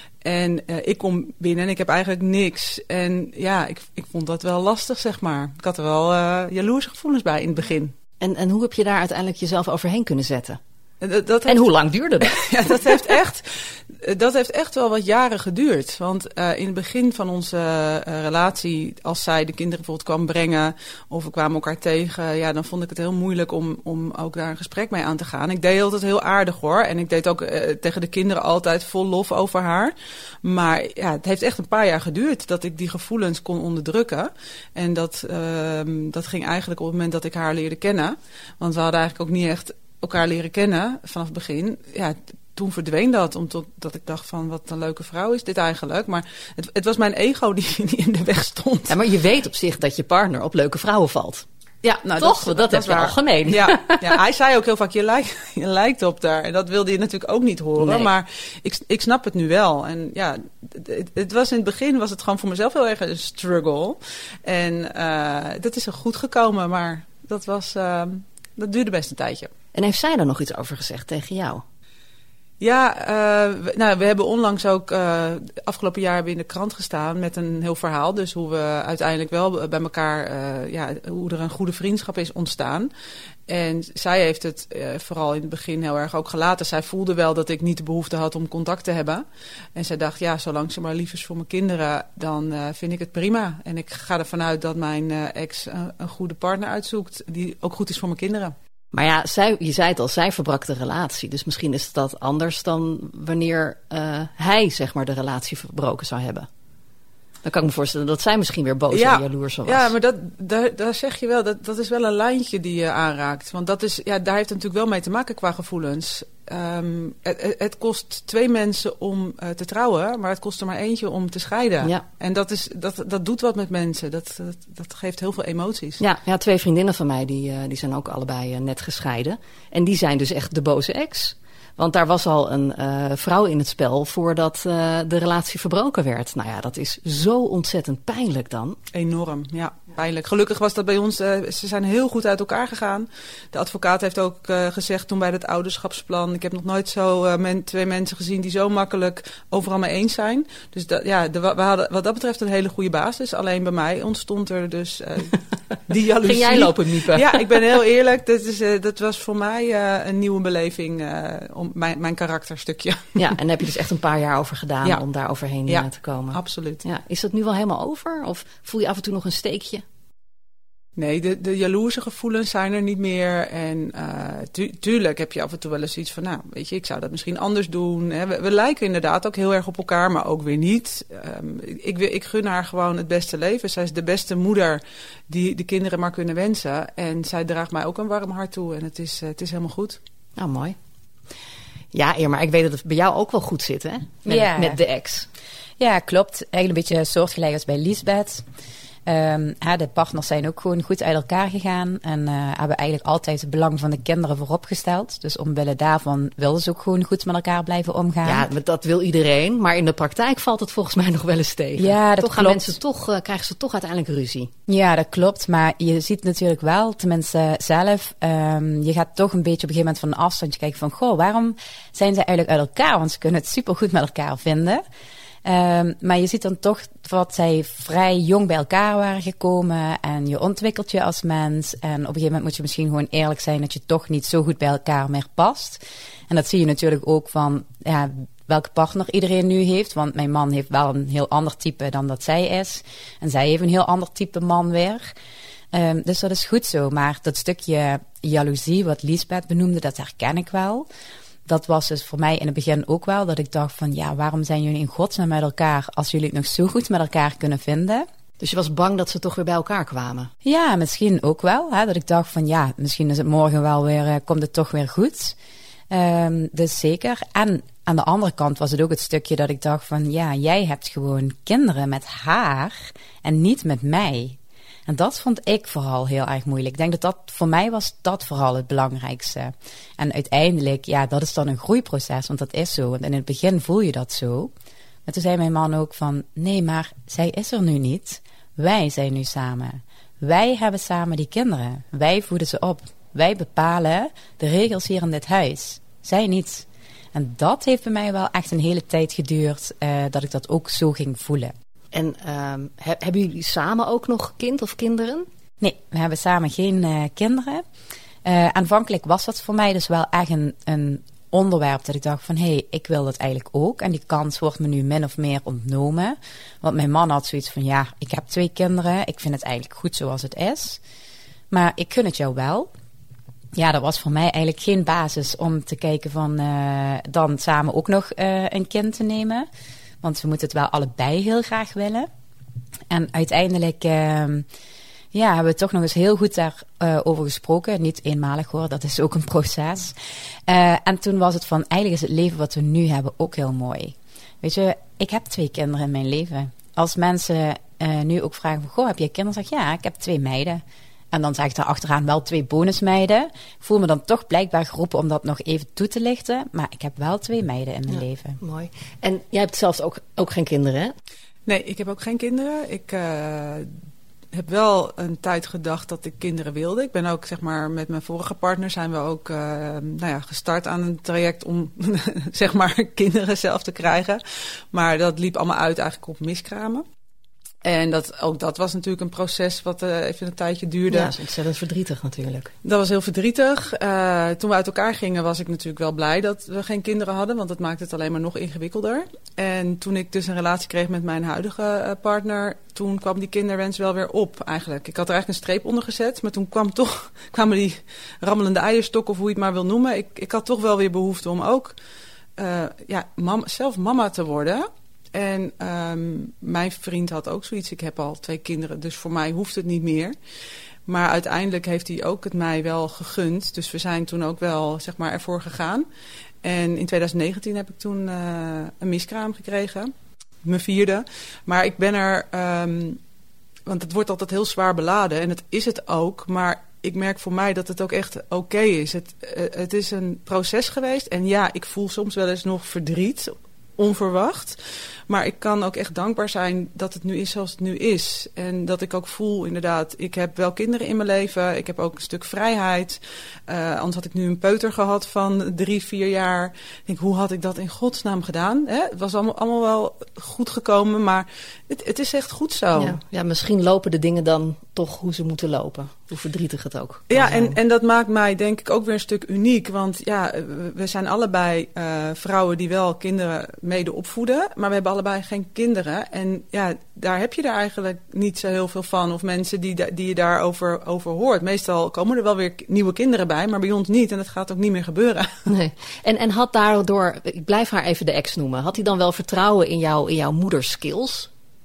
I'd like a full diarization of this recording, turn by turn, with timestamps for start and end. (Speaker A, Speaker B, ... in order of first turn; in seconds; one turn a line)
Speaker A: 0.2-7.9
Speaker B: 8.2-10.6
Speaker A: 11.0-11.7
Speaker B: 11.5-12.9
Speaker A: 12.2-49.0
Speaker B: 48.9-54.2
Speaker A: 52.2-53.0
Speaker A: 53.5-69.5
Speaker B: 57.8-58.1
Speaker B: 69.8-71.6
Speaker A: 72.6-82.9
Speaker A: 83.5-89.2
Speaker A: 89.8-98.5
Speaker B: 98.9-106.5
Speaker B: 107.5-109.9
Speaker A: 108.9-126.0
Speaker B: 126.0-138.8
Speaker A: 138.9-163.3
Speaker B: 156.2-157.5
Speaker B: 163.2-169.8
Speaker A: 165.7-166.8
Speaker A: 171.0-190.0
Speaker B: 190.4-190.8
Speaker B: 191.9-195.3
Speaker C: 194.3-194.8
Speaker C: 195.8-198.4
Speaker C: 199.1-208.5
Speaker B: 208.2-214.5
Speaker C: 211.8-212.8
Speaker C: 214.7-224.8
Speaker C: 225.4-245.1
Speaker C: 245.7-250.9
Speaker C: 251.5-258.1
Speaker B: 258.4-260.3
Speaker C: 260.4-265.4
Speaker C: 265.9-284.5
Speaker C: 285.1-301.5
Speaker B: 301.9-305.3
Speaker C: 305.6-307.6
Speaker C: 308.2-320.8
Speaker C: 321.5-322.7
Speaker C: 323.6-329.5
Speaker C: 330.0-332.1
Speaker C: 332.9-334.5
Speaker C: 335.1-339.9
Speaker C: 340.5-358.4
Speaker B: 357.9-360.9
Speaker A: 361.5-363.7
Speaker A: 364.3-376.9
Speaker A: 377.6-381.1
Speaker B: 380.9-382.5
Speaker A: 382.6-401.8
Speaker A: 402.4-410.1
Speaker A: 410.9-415.9
Speaker A: 416.4-419.9
Speaker A: 420.4-423.0
Speaker A: 423.7-434.6
Speaker A: 435.1-453.0
Speaker B: 452.8-457.6
Speaker A: 457.1-475.3
Speaker B: 475.5-481.3